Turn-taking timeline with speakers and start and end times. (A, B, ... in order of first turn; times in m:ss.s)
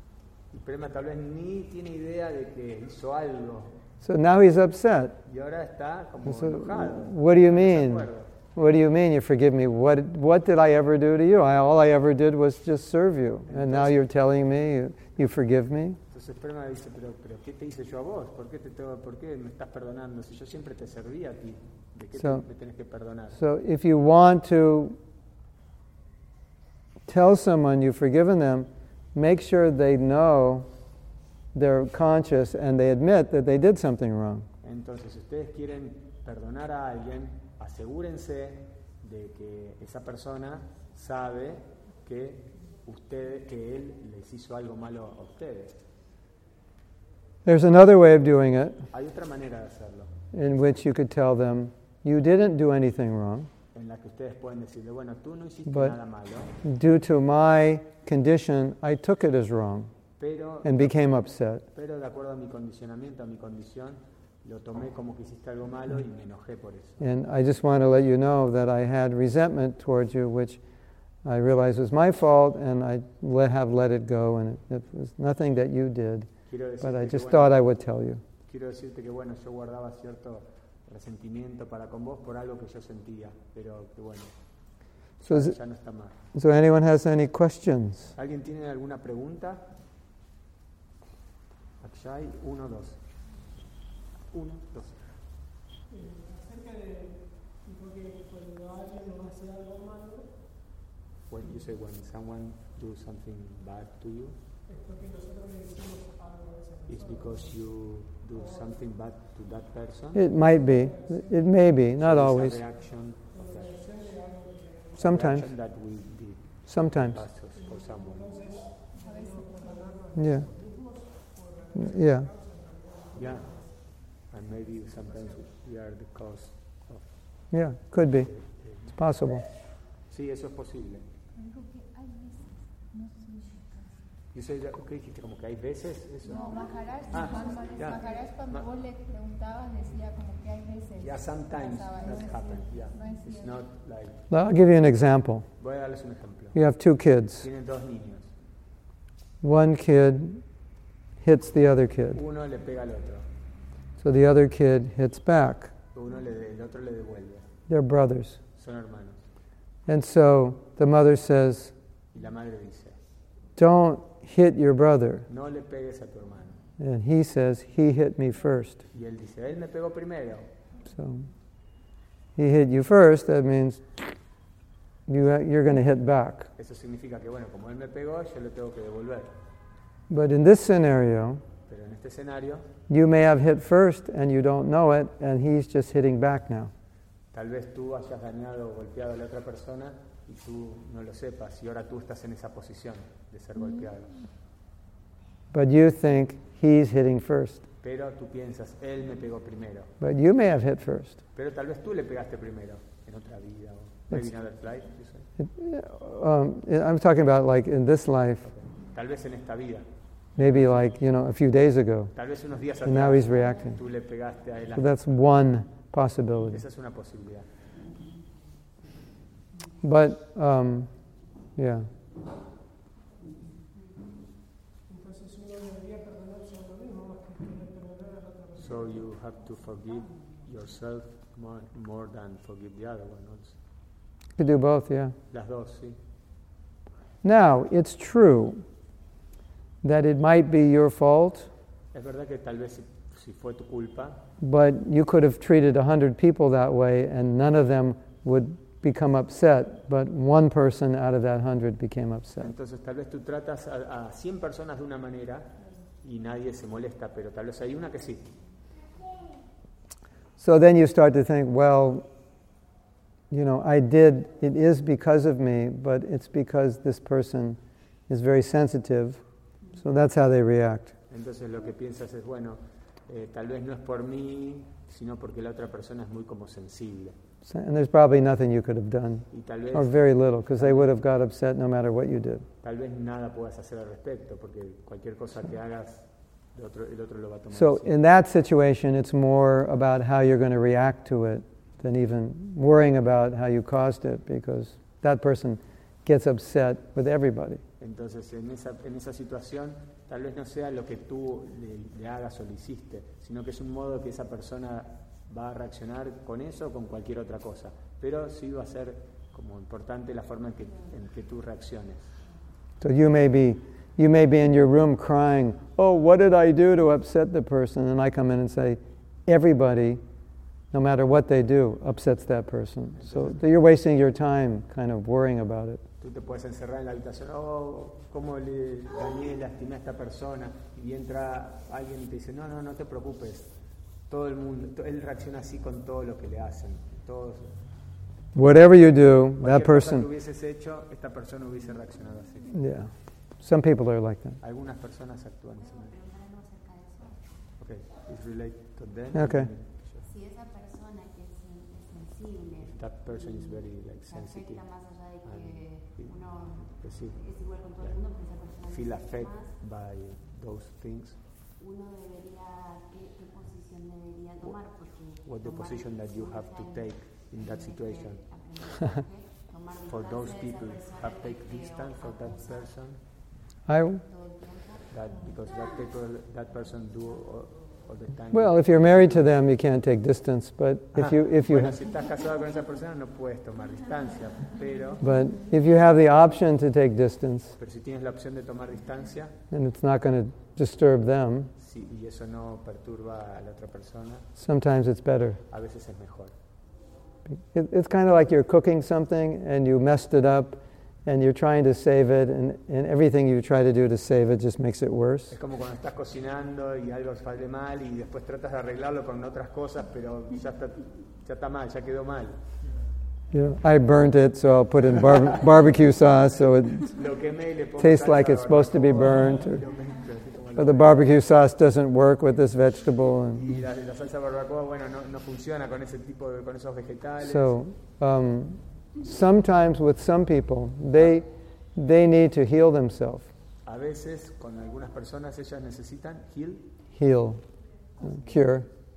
0:00.5-0:03.8 A
0:04.0-0:05.2 B
0:05.3-0:08.3 A
0:06.2-0:16.0 B
0:13.5-0:14.0 A
0:16.1-0:23.4 A
0:22.2-0:22.4 B
0:23.4-0:25.0 B
0:27.1-0:30.7 B
0:31.5-0:34.5 B
0:34.6-0:45.8 A
0:47.4-0:48.8 B
0:48.9-0:50.1 A
0:50.3-0:53.5 B
0:53.7-0:56.6 A
0:55.7-0:56.0 B
0:56.6-0:59.9 B
1:00.2-1:01.0 A
1:00.6-1:01.6 B
1:01.7-1:07.1 A
1:07.0-1:10.6 B
1:11.2-1:18.2 B
1:16.5-1:17.7 A
1:18.5-1:24.3 A
1:25.2-1:26.2 A
1:25.2-1:25.6 B
1:26.3-1:28.1 B
1:28.1-1:29.7 A
1:31.8-1:33.0 A
1:34.3-1:35.0 A
1:36.4-1:36.8 C
1:37.7-1:40.2 C
1:41.3-1:44.4 A
1:45.1-1:46.1 C
1:46.8-1:50.3 A
1:50.1-1:52.6 B
1:52.0-1:54.1 A
1:55.0-1:55.5 B
1:55.0-1:58.5 A
1:56.7-1:57.2 B
1:58.9-2:00.0 D
2:00.1-2:00.5 B
2:01.7-2:02.3 B
2:03.1-2:07.1 A
2:07.5-2:08.3 B
2:08.2-2:08.9 A
2:08.8-2:09.4 B
2:10.1-2:11.0 A
2:11.4-2:13.9 D
2:14.3-2:18.7 A
2:16.3-2:23.5 D
2:21.0-2:24.2 A
2:24.3-2:25.5 B
2:25.6-2:26.6 A
2:26.5-2:27.5 B
2:27.4-2:28.3 A
2:29.4-2:30.4 B
2:31.2-2:32.2 B
2:32.1-2:33.3 A
2:34.0-2:35.7 B
2:36.0-2:37.5 A
2:37.7-2:38.4 B
2:38.6-2:39.2 A
2:39.9-2:41.7 B
2:42.1-2:43.0 A
2:43.6-2:45.2 B
2:45.3-2:46.6 A
2:46.8-2:48.8 B
2:48.9-2:50.5 A
2:50.9-2:51.3 B
2:52.4-2:53.8 B
2:55.1-2:56.5 B
2:56.6-2:59.3 A
3:00.1-3:01.4 B
3:01.7-3:02.7 A
3:02.9-3:06.7 B
3:07.3-3:14.1 A
3:15.5-3:17.6 B
3:17.8-3:19.9 A
3:20.0-3:21.2 B
3:21.3-3:25.3 A
3:25.4-3:28.5 B
3:28.4-3:30.7 A
3:30.4-3:32.1 B
3:32.1-3:35.0 A
3:32.8-3:33.8 B
3:34.8-3:36.6 B
3:36.5-3:37.5 A
3:39.8-3:41.9 B
3:48.5-3:53.6 A
3:54.4-3:55.1 B
3:55.3-3:56.0 A
3:57.2-3:58.6 B
3:59.8-4:01.5 B
4:01.9-4:04.2 A
4:04.4-4:12.5 B
4:12.4-4:18.3 A
4:20.4-4:22.1 B
4:23.3-4:29.2 B
4:29.8-4:30.9 B
4:31.1-4:37.2 A
4:37.4-4:42.5 B
4:39.3-4:40.9 A
4:42.6-4:48.0 A
4:47.5-4:57.6 B
4:57.8-5:12.1 A
5:12.8-5:20.0 B
5:20.7-5:25.8 B
5:23.0-5:23.4 A
5:26.0-5:33.5 A
5:34.1-5:37.6 A
5:38.4-5:40.1 B
5:39.2-5:42.6 A
5:42.5-5:44.4 B
5:44.4-5:45.9 A
5:45.6-5:47.5 E
5:47.6-5:50.1 A
5:49.1-5:49.5 B
5:50.0-5:59.6 E
5:52.6-6:01.2 A
6:01.6-6:12.8 E
6:04.4-6:08.2 A
6:09.8-6:13.0 A
6:13.7-6:14.0 B
6:14.1-6:15.6 E
6:14.9-6:19.4 A
6:18.3-6:21.8 B
6:20.9-6:25.0 A
6:25.0-6:27.6 B
6:27.6-6:29.4 A
6:29.5-6:31.5 B
6:31.6-6:34.3 A
6:34.4-6:35.4 B
6:35.5-6:36.3 A
6:37.4-6:45.4 B
6:45.3-6:52.4 A
6:53.3-6:56.9 B
6:56.8-7:01.1 A
6:57.8-6:59.6 B
7:00.6-7:03.5 B
7:03.3-7:07.6 A
7:07.2-7:13.3 B
7:13.6-7:16.7 A
7:16.9-7:17.4 B
7:18.0-7:18.7 B